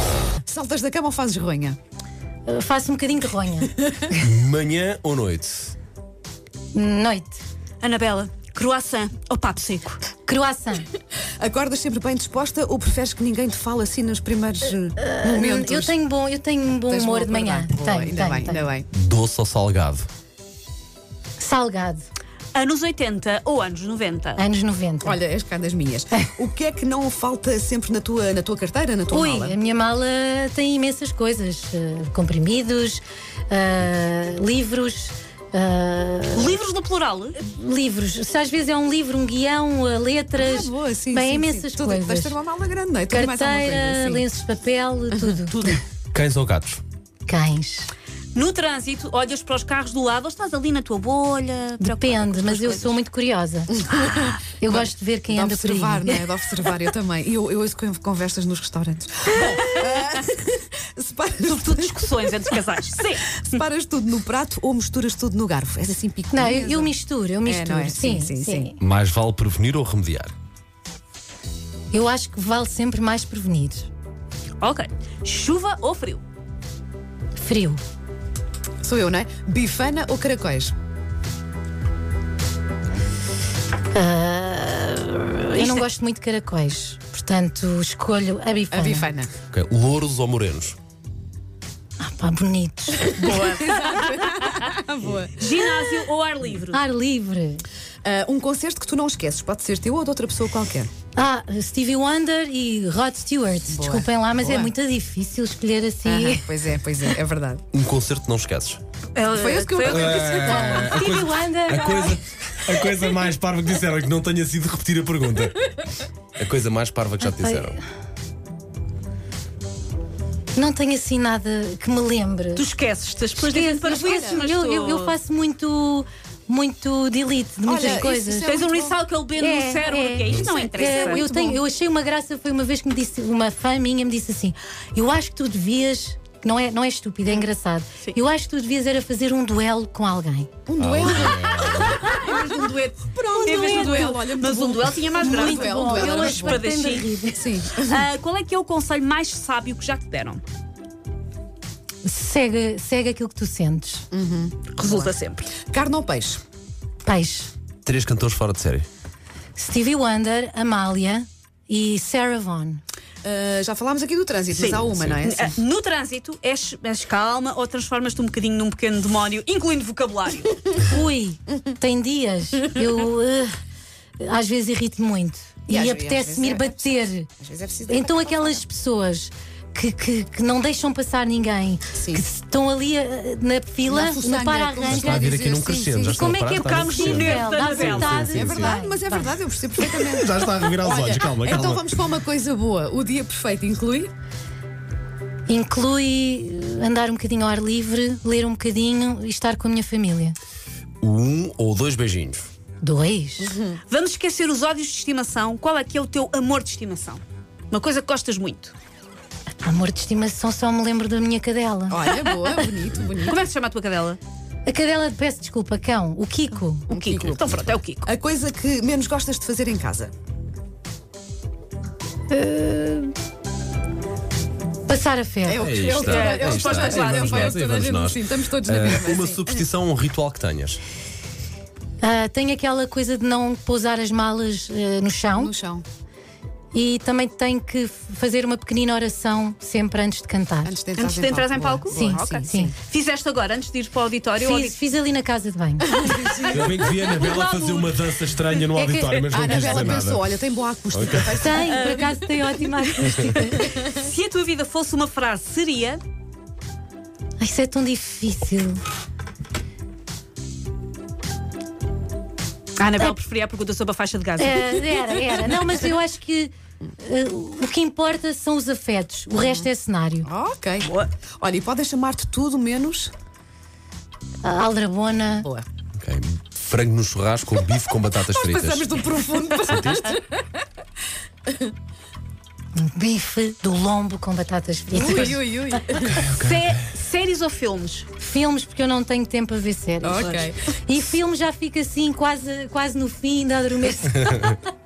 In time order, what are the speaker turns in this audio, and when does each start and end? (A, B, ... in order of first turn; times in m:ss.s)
0:00.4-0:01.8 A
0:02.5-0:03.7 B
0:04.2-0:05.7 C
0:06.7-0:07.4 B
0:07.8-0:10.0 D
0:10.3-0:10.9 B
0:11.4-0:16.0 A
0:15.0-0:18.7 B
0:16.8-0:18.9 A
0:18.9-0:20.1 C
0:21.4-0:22.0 B
0:22.6-0:24.4 D
0:24.4-0:25.2 B
0:25.0-0:29.6 A
0:29.1-0:36.6 B
0:36.3-0:37.4 D
0:37.4-0:42.4 B
0:40.4-0:44.2 A
0:43.1-0:45.8 B
0:46.1-0:46.8 C
0:47.3-0:47.9 B
0:48.4-0:53.0 D
0:51.8-0:53.8 B
0:53.7-1:02.1 A
0:54.6-0:56.2 B
1:01.4-1:03.6 D
1:03.4-1:08.7 A
1:06.3-1:08.8 B
1:08.8-1:10.3 C
1:11.9-1:13.9 B
1:14.6-1:16.2 D
1:17.4-1:17.8 B
1:18.8-1:20.7 A
1:23.9-1:29.1 B
1:25.5-1:25.9 D
1:28.7-1:29.3 A
1:29.5-1:30.8 C
1:32.0-1:33.5 B
1:33.0-1:35.5 A
1:33.2-1:34.6 D
1:35.4-1:36.8 D
1:36.7-1:37.6 B
1:38.0-1:40.9 A
1:41.2-1:46.6 B
1:43.7-1:44.7 A
1:46.0-1:47.6 A
1:47.7-1:48.8 C
1:49.2-1:50.4 D
1:49.3-1:51.1 A
1:49.8-1:55.8 C
1:50.4-1:52.2 B
1:56.4-1:57.8 C
1:57.2-1:57.8 B
2:00.6-2:02.7 B
2:02.6-2:05.2 D
2:03.4-2:08.5 B
2:04.0-2:04.4 A
2:07.6-2:09.0 A
2:07.8-2:11.3 D
2:09.4-2:20.5 B
2:10.4-2:11.6 A
2:20.7-2:26.6 A
2:20.8-2:22.2 C
2:21.6-2:27.1 D
2:25.2-2:27.5 B
2:27.3-2:28.0 A
2:27.7-2:30.4 D
2:32.0-2:34.0 B
2:34.1-2:36.4 A
2:34.8-2:35.5 D
2:37.0-2:37.5 B
2:37.8-2:38.9 C
2:39.6-2:42.8 B
2:43.2-2:45.6 A
2:44.5-2:50.8 D
2:50.8-2:53.5 B
2:54.2-2:57.3 B
2:55.7-2:58.6 A
2:57.9-3:09.4 B
3:01.9-3:02.2 A
3:03.9-3:06.3 A
3:04.9-3:08.7 C
3:06.5-3:08.4 D
3:08.2-3:14.1 A
3:09.8-3:11.9 C
3:15.5-3:20.4 B
3:21.0-3:22.5 C
3:22.8-3:23.6 B
3:23.4-3:23.8 A
3:23.9-3:28.7 D
3:29.6-3:32.5 B
3:31.9-3:33.4 A
3:33.3-3:34.2 D
3:34.7-3:36.9 B
3:36.9-3:38.1 D
3:36.9-3:40.1 A
3:42.3-3:43.1 B
3:44.9-3:45.7 B
3:45.4-3:49.6 A
3:45.6-3:50.8 C
3:45.9-3:47.6 D
3:52.0-3:55.5 B
3:55.4-3:55.8 A
3:56.7-4:00.8 B
4:00.6-4:02.7 A
4:01.0-4:04.8 D
4:01.9-4:02.8 B
4:04.4-4:06.3 B
4:05.9-4:06.7 A
4:06.5-4:10.3 C
4:06.8-4:08.1 D
4:08.7-4:10.0 B
4:09.3-4:12.1 A
4:10.9-4:11.5 C
4:11.3-4:13.8 B
4:11.7-4:12.2 D
4:13.8-4:16.0 D
4:17.4-4:18.8 B
4:22.8-4:24.8 D
4:24.4-4:30.3 B
4:30.2-4:33.1 A
4:30.8-4:31.1 D
4:34.4-4:35.5 B
4:35.4-4:35.7 A
4:36.0-4:39.0 C
4:38.3-4:40.4 A
4:39.7-4:40.1 C
4:42.8-4:45.4 B
4:44.9-4:46.3 A
4:46.2-4:46.7 C
4:46.3-4:48.1 D
4:48.2-4:54.7 B
4:50.0-4:50.6 A